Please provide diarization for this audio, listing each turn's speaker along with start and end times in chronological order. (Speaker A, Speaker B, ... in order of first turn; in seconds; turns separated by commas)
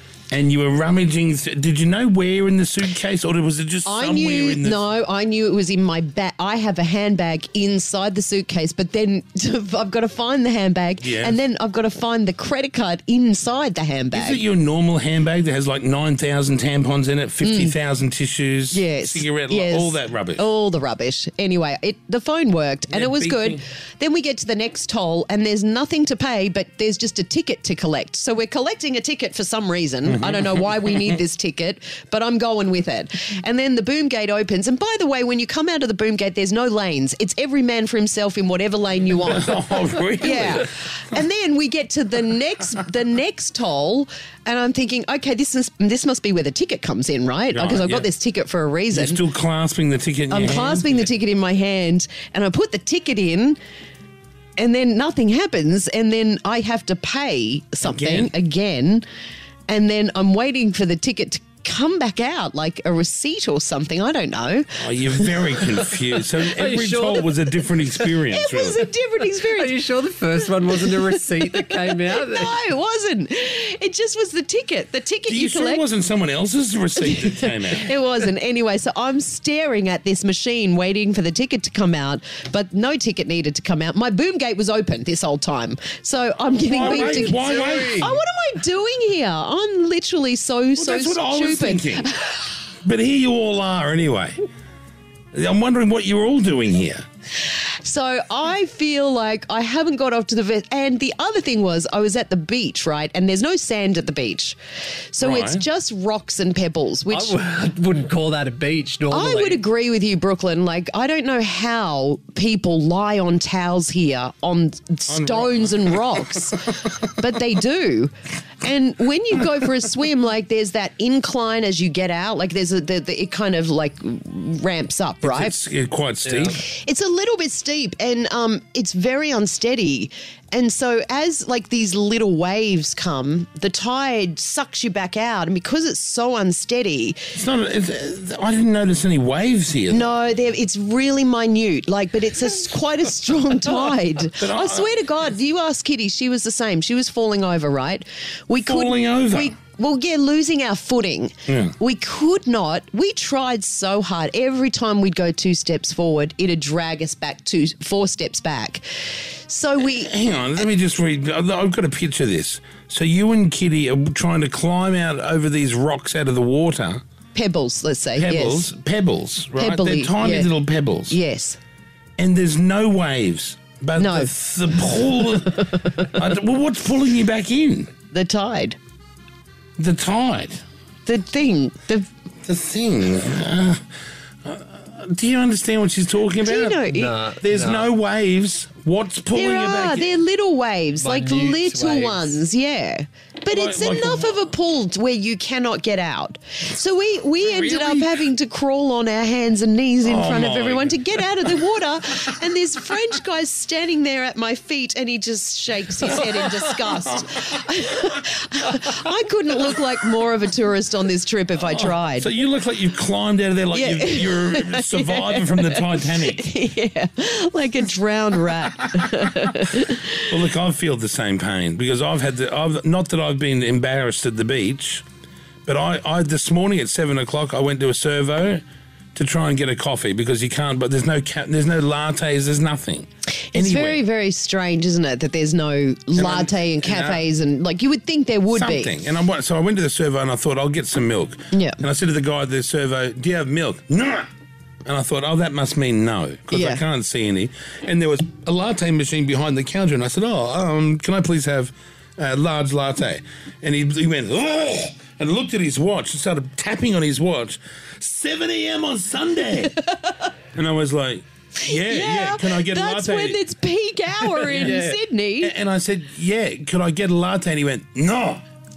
Speaker A: 0.3-4.8, Speaker B: 3.8-14.4, Speaker A: 11.0-11.4, Speaker A: 14.1-20.4, Speaker B: 17.4-17.7, Speaker B: 18.7-39.5, Speaker A: 22.9-23.6, Speaker A: 30.1-31.1, Speaker A: 39.3-40.7, Speaker B: 40.2-49.2, Speaker A: 47.5-48.1, Speaker A: 48.9-51.0, Speaker B: 50.3-53.6, Speaker B: 54.6-59.0, Speaker A: 57.8-58.3, Speaker B: 59.7-65.6, Speaker A: 64.8-68.9, Speaker C: 66.4-68.2, Speaker B: 68.3-69.8, Speaker C: 69.5-72.5, Speaker B: 70.7-75.8, Speaker A: 75.3-77.9, Speaker B: 77.0-92.5, Speaker A: 86.6-88.0, Speaker C: 86.8-88.2, Speaker A: 90.8-92.1, Speaker A: 92.8-94.4, Speaker A: 95.3-97.0, Speaker B: 97.4-104.6, Speaker B: 105.1-107.3, Speaker A: 105.2-105.6, Speaker C: 107.1-109.6, Speaker B: 109.1-125.6, Speaker A: 115.1-116.2, Speaker A: 125.2-126.6, Speaker C: 126.3-126.5, Speaker B: 126.6-137.2, Speaker A: 137.3-140.1, Speaker B: 139.9-158.8, Speaker A: 144.3-144.9, Speaker A: 148.6-149.5, Speaker A: 151.5-151.7, Speaker B: 159.4-160.1, Speaker A: 159.8-167.0, Speaker B: 167.3-168.7, Speaker A: 168.2-171.2, Speaker B: 169.6-170.5, Speaker B: 171.1-171.6, Speaker A: 172.2-177.9, Speaker B: 174.0-174.3, Speaker B: 178.1-178.8, Speaker A: 179.8-180.6, Speaker B: 181.1-182.1, Speaker A: 182.4-183.8, Speaker A: 184.4-186.9, Speaker B: 186.4-187.1, Speaker C: 186.9-187.9, Speaker A: 187.4-190.2, Speaker B: 189.3-212.3, Speaker C: 191.0-192.4, Speaker A: 193.5-194.3, Speaker A: 197.4-198.2, Speaker A: 200.0-201.5, Speaker A: 211.7-216.4, Speaker B: 213.7-220.3, Speaker A: 220.3-225.0, Speaker A: 225.7-228.6, Speaker A: 229.1-234.0, Speaker B: 233.5-238.9, Speaker A: 236.2-237.2, Speaker A: 238.5-244.3, Speaker B: 241.5-241.8, Speaker A: 244.8-259.8, Speaker B: 246.5-246.8, Speaker A: 260.5-263.4, Speaker B: 261.6-265.5, Speaker C: 264.2-265.0, Speaker A: 265.4-268.4